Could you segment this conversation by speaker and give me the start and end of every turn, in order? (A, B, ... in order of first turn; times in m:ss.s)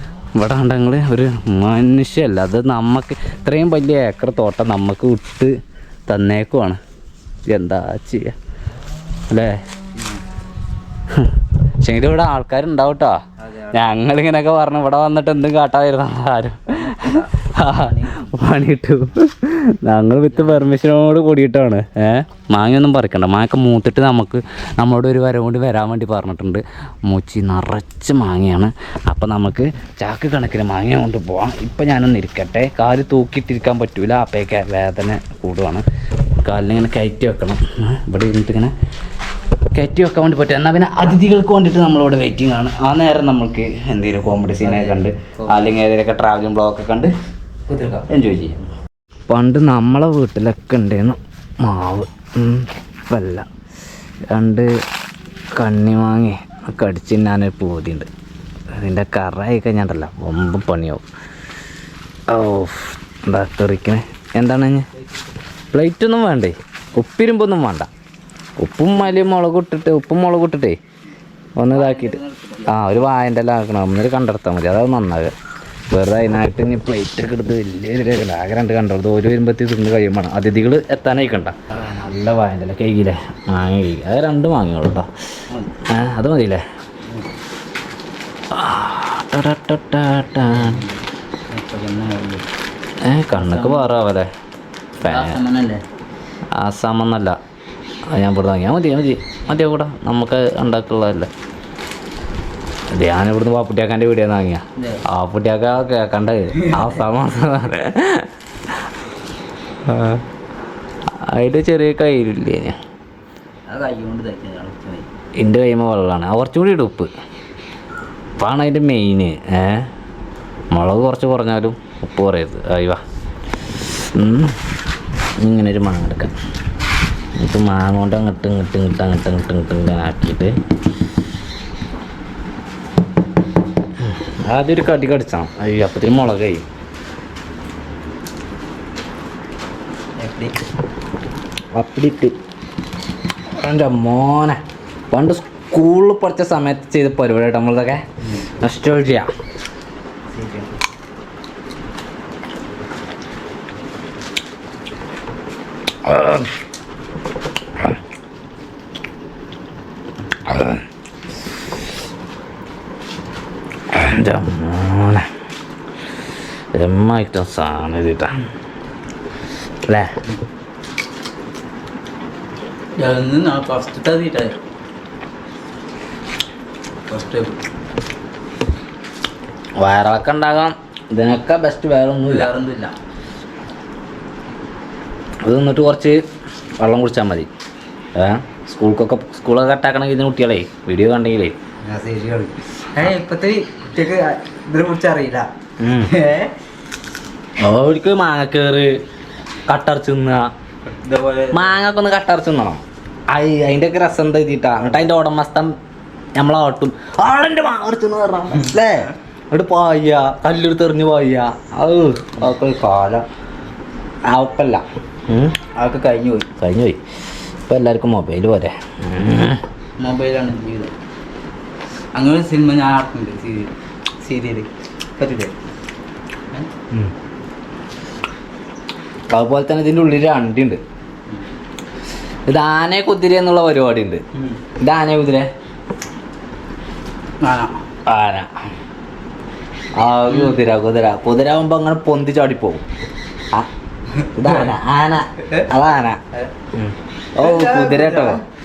0:00.4-0:05.6 A
0:06.1-0:06.8 A
0:07.5-0:08.4 A
0:09.3-0:09.6 A
0:09.9-0:10.2 B
0:11.1-0:35.8 A
0:13.4-0:13.8 B
0:16.7-0:18.3 B
0:20.3-0:20.6 B
0:36.4-0:38.7 A
0:39.7-0:47.1 A
0:44.6-0:45.7 B
0:47.7-0:48.0 B
0:48.0-0:48.6 A
0:49.3-0:53.5 A
0:54.3-0:54.7 A
0:55.6-0:58.1 A
0:58.8-1:01.0 A
1:02.3-1:04.9 A
1:05.7-1:07.9 A
1:08.6-1:10.8 A
1:11.6-1:15.3 A
1:11.7-1:12.8 B
1:15.9-1:25.1 A
1:25.5-1:25.7 B
1:25.9-1:26.6 A
1:27.1-1:27.3 B
1:28.5-1:30.8 A
1:30.5-1:32.5 B
1:33.0-1:34.3 A
1:33.3-1:33.9 B
1:35.0-1:35.8 B
1:35.0-1:35.4 A
1:36.6-1:37.4 A
1:38.1-1:41.3 A
1:42.9-1:48.3 A
1:44.8-1:45.0 B
1:46.6-1:46.9 B
1:49.8-1:50.2 A
1:51.2-1:52.8 A
1:53.7-1:55.1 B
1:55.4-1:57.1 A
1:58.4-1:59.9 A
2:00.7-2:03.0 A
2:04.1-2:04.6 A
2:05.4-2:06.3 A
2:07.4-2:10.6 A
2:14.0-2:16.6 A
2:20.2-2:20.6 B
2:21.7-2:22.3 A
2:23.6-2:24.6 A
2:25.1-2:29.3 A
2:28.2-2:28.5 B
2:30.3-2:30.7 B
2:36.0-2:36.5 A
2:40.4-2:40.8 A
2:43.9-2:45.3 A
2:46.7-2:48.4 A
2:49.9-2:50.2 A
2:53.0-2:54.6 B
2:57.1-2:57.6 B
2:59.8-3:02.5 A
3:02.3-3:02.9 B
3:05.4-3:06.2 A
3:06.8-3:07.5 A
3:08.1-3:11.5 A
3:11.8-3:15.5 B
3:15.8-3:16.1 A
3:16.0-3:16.5 B
3:17.6-3:19.0 A
3:19.7-3:20.5 A
3:21.0-3:21.8 B
3:21.5-3:25.8 A
3:26.3-3:33.1 A
3:28.5-3:29.1 B
3:32.4-3:33.2 B
3:34.3-3:35.6 A
3:35.7-3:36.5 B
3:36.6-3:37.0 A
3:37.7-3:39.6 A
3:40.0-3:40.9 B
3:42.1-3:43.7 B
3:44.2-3:45.5 B
3:49.3-3:50.8 A
3:52.5-3:54.2 A
3:54.3-3:54.6 B
3:54.8-3:55.5 A
3:57.4-3:57.8 B
3:58.1-3:58.5 A
4:00.0-4:02.8 A
4:00.3-4:00.5 B
4:04.1-4:04.7 B
4:04.3-4:06.2 A
4:06.7-4:08.4 A
4:07.4-4:08.4 B